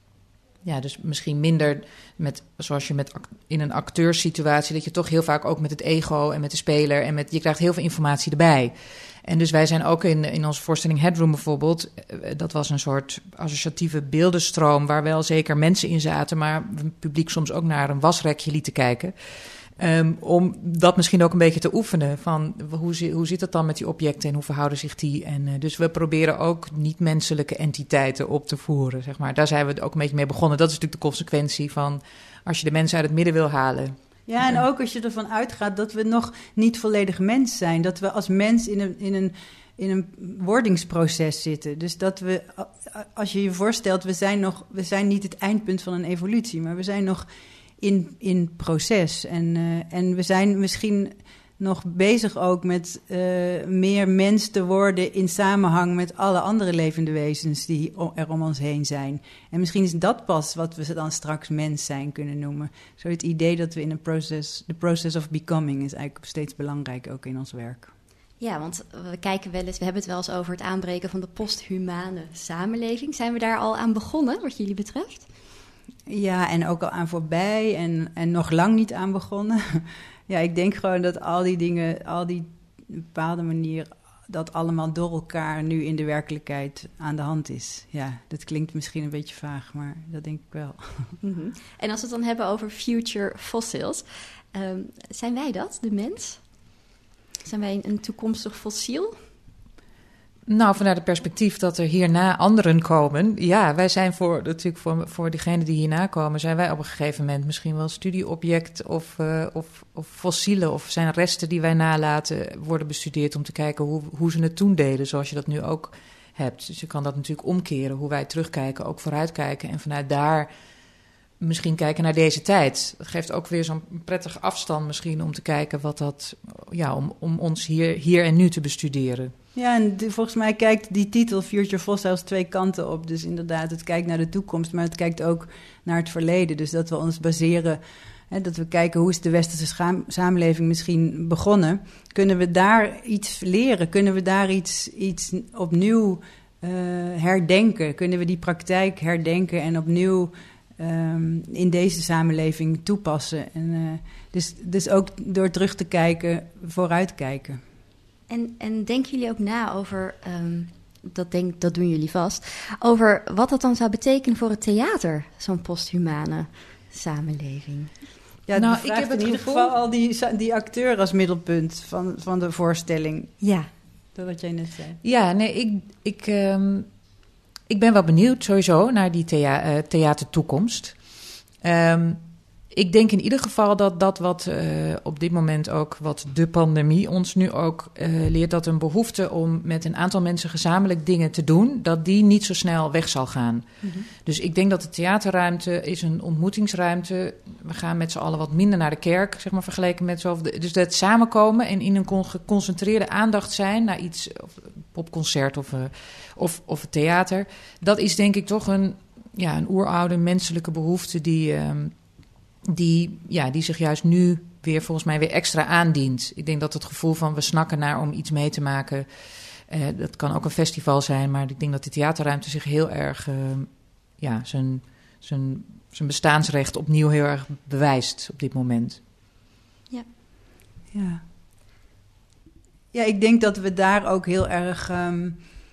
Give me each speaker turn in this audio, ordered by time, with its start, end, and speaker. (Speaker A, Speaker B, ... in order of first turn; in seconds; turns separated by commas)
Speaker A: 0.6-19.1, Speaker A: 19.8-34.6, Speaker B: 34.3-47.3, Speaker B: 47.8-67.9, Speaker C: 68.4-75.3, Speaker B: 76.1-91.2, Speaker C: 91.2-96.4, Speaker C: 97.5-99.2, Speaker A: 100.5-120.5, Speaker A: 121.4-129.3, Speaker B: 129.6-157.6, Speaker C: 158.3-167.9, Speaker B: 168.5-173.4, Speaker A: 168.6-169.7, Speaker C: 173.4-173.7, Speaker B: 174.2-175.0, Speaker A: 175.0-176.9, Speaker A: 177.7-181.0, Speaker A: 181.6-182.2, Speaker A: 182.7-211.9, Speaker A: 212.7-219.1, Speaker A: 219.7-229.0, Speaker B: 230.9-231.2, Speaker B: 232.9-235.4